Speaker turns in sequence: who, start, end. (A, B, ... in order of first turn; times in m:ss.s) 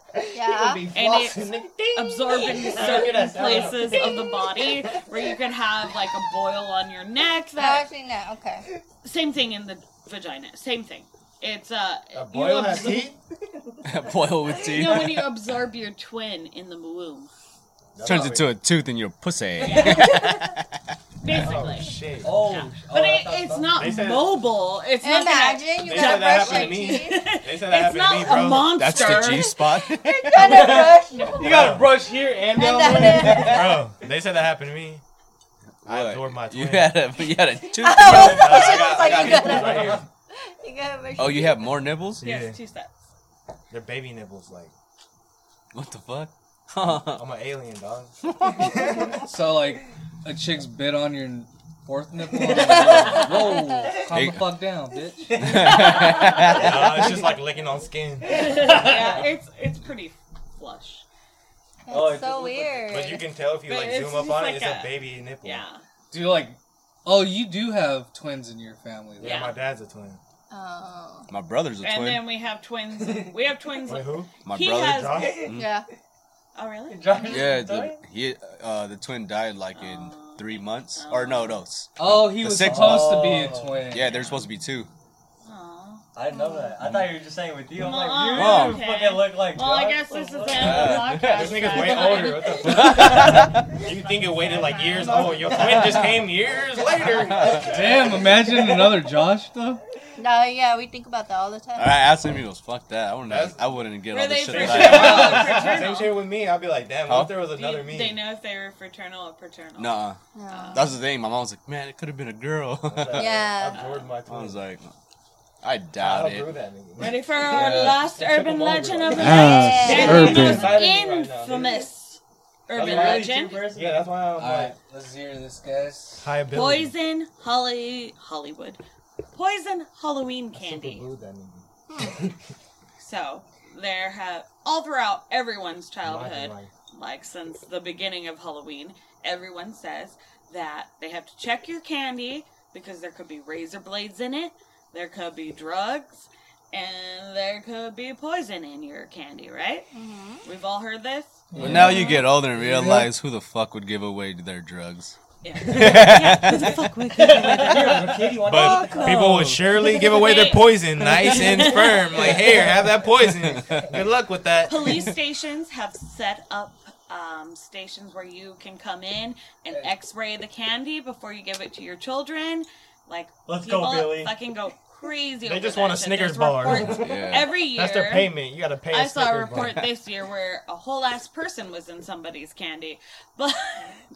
0:00.1-0:05.0 A
0:00.3-0:00.9 B
0:00.9-0:07.9 C
0:07.6-0:08.6 B
0:09.0-0:13.1 C
0:12.1-0:13.2 A
0:13.8-0:15.3 D
0:14.6-0:17.3 C
0:17.9-0:18.5 A
0:18.0-0:20.6 D
0:19.6-0:20.5 C
0:19.7-0:20.1 E
0:21.2-0:29.8 C
0:21.3-0:22.5 A
0:22.2-0:24.0 E
0:23.8-0:24.4 A
0:25.0-0:27.3 B
0:25.8-0:28.8 A
0:28.6-0:30.8 D
0:30.0-0:31.7 B
0:30.3-0:33.6 E
0:31.4-0:35.0 A
0:32.4-0:33.8 B
0:35.8-0:39.2 D
0:35.8-0:37.0 A
0:37.7-0:41.7 B
0:38.0-0:40.0 A
0:41.2-0:42.2 D
0:42.2-0:42.6 A
0:42.2-0:43.0 C
0:43.7-0:44.7 A
0:45.7-0:47.2 D
0:46.8-0:49.2 A
0:49.2-0:55.5 F
0:52.4-0:53.2 E
0:52.9-0:53.8 B
0:54.1-0:54.5 D
0:55.3-0:56.6 E
0:55.4-0:57.2 D
0:56.4-0:58.5 A
0:58.2-0:59.2 E
0:58.2-1:01.0 C
1:01.8-1:03.3 B
1:01.9-1:02.9 E
1:02.9-1:05.6 A
1:03.6-1:05.8 C
1:06.1-1:09.5 F
1:09.2-1:10.2 A
1:09.2-1:09.6 C
1:10.5-1:11.3 B
1:11.3-1:12.2 D
1:11.8-1:15.3 C
1:13.0-1:13.3 E
1:13.8-1:14.3 A
1:14.4-1:15.7 D
1:14.8-1:15.4 A
1:15.2-1:15.6 E
1:15.5-1:15.9 B
1:16.5-1:17.5 C
1:16.9-1:18.0 E
1:17.2-1:24.9 D
1:19.7-1:21.6 C
1:22.0-1:24.1 F
1:22.6-1:23.8 E
1:24.0-1:24.5 C
1:25.4-1:26.0 C
1:26.1-1:31.0 E
1:26.3-1:26.8 B
1:27.7-1:33.3 C
1:28.3-1:28.8 D
1:30.5-1:31.6 D
1:30.9-1:38.2 A
1:32.6-1:33.6 D
1:33.9-1:34.4 C
1:34.5-1:35.1 B
1:35.1-1:36.1 E
1:37.6-1:39.8 F
1:40.2-1:42.0 B
1:41.8-1:45.4 D
1:43.2-1:43.7 A
1:44.1-1:46.2 C
1:44.5-1:48.2 A
1:44.9-1:45.6 F
1:47.0-1:47.4 D
1:47.5-1:50.9 C
1:49.8-1:50.2 D
1:50.3-1:50.9 B
1:50.7-1:53.4 D
1:52.9-1:54.6 A
1:53.1-1:54.0 B
1:53.7-1:54.0 C
1:54.3-1:54.9 D
1:55.6-1:56.5 D
1:56.0-2:01.9 A
1:57.0-2:03.7 C
1:57.6-1:57.9 D
1:59.1-2:00.8 F
1:59.2-2:00.5 B
2:00.1-2:00.7 E
2:02.7-2:04.1 E
2:02.7-2:04.8 A
2:04.4-2:06.3 F
2:06.2-2:06.9 A
2:06.5-2:08.8 C
2:09.3-2:11.0 C
2:10.5-2:12.3 A
2:13.0-2:29.9 C
2:16.0-2:16.7 A
2:29.9-2:30.4 B
2:30.4-2:32.2 C
2:31.5-2:33.1 F
2:31.6-2:36.8 D
2:35.4-2:38.8 C
2:37.1-2:40.0 E
2:38.3-2:45.1 A
2:39.8-2:42.4 C
2:42.1-2:42.8 E
2:43.4-2:43.9 D
2:44.6-2:58.4 C
2:53.4-2:54.3 E
2:55.4-2:59.8 A
2:56.8-2:57.6 D
2:58.9-3:04.0 C